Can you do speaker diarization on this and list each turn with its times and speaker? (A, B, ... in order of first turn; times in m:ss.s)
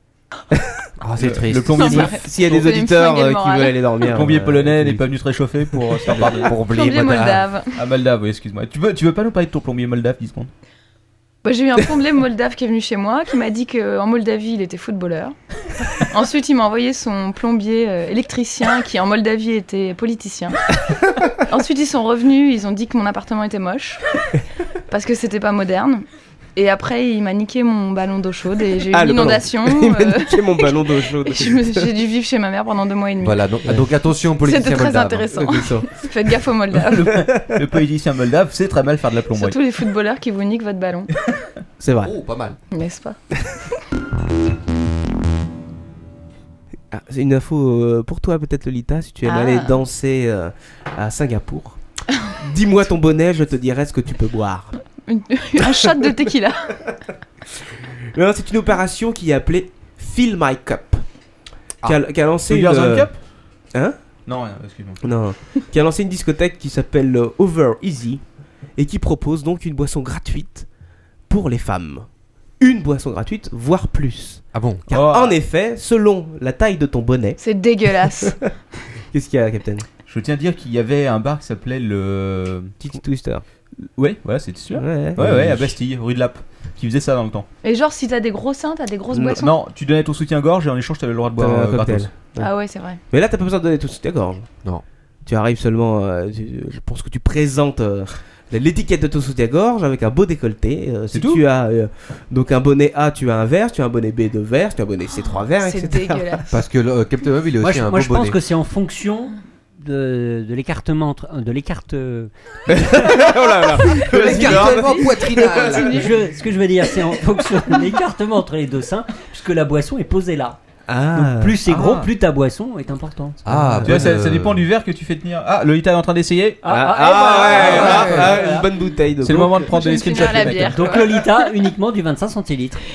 0:00.5-0:04.8 A
0:01.0-0:02.1 B
0:01.2-0:02.6 C
0:01.7-0:04.0 D
0:04.1-0:06.6 C
0:06.2-0:07.5 B
0:06.6-0:07.8 D
0:07.8-0:10.5 C
0:11.4-0:15.3 D
0:16.1-0:20.6 D
0:21.5-0:24.0 D
0:24.9-0:33.4 D
0:28.9-0:31.9 A
0:33.2-0:35.3 B
0:34.4-0:37.2 D
0:35.3-0:35.9 A
0:36.7-0:39.6 C
0:37.3-0:37.6 A
0:39.3-0:41.1 D
0:41.8-0:42.1 A
0:42.0-0:42.6 B
0:42.7-0:43.2 D
0:46.9-0:51.8 A
0:49.2-0:49.8 D
0:52.4-0:54.7 A
0:54.8-0:56.7 D
0:58.1-1:01.0 A
1:01.8-1:03.1 A
1:02.5-1:03.1 C
1:04.3-1:05.0 C
1:05.0-1:08.2 A
1:08.8-1:10.7 A
1:11.3-1:12.1 A
1:12.6-1:17.4 A
1:14.5-1:14.8 B
1:14.9-1:15.4 C
1:17.4-1:18.4 D
1:19.1-1:19.8 A
1:20.1-1:22.7 C
1:22.8-1:23.4 A
1:24.0-1:27.5 C
1:24.7-1:25.6 A
1:25.2-1:25.4 B
1:27.6-1:29.5 D
1:29.1-1:29.4 A
1:29.4-1:32.1 C
1:31.4-1:32.5 A
1:32.4-1:33.0 D
1:33.1-1:34.5 A
1:35.2-1:46.4 A
1:41.1-1:41.4 C
1:45.2-1:46.6 D
1:46.5-1:48.4 B
1:47.6-1:52.3 E
1:52.7-1:55.9 A
1:53.8-1:56.1 D
1:54.0-1:56.0 B
1:55.9-2:00.6 E
2:00.9-2:01.6 A
2:01.1-2:03.4 E
2:01.6-2:02.1 C
2:03.4-2:04.6 B
2:03.5-2:04.1 A
2:03.8-2:06.6 C
2:06.6-2:08.7 E
2:06.6-2:10.4 A
2:07.4-2:08.2 C
2:09.2-2:11.0 C
2:09.6-2:11.5 D
2:10.5-2:12.8 E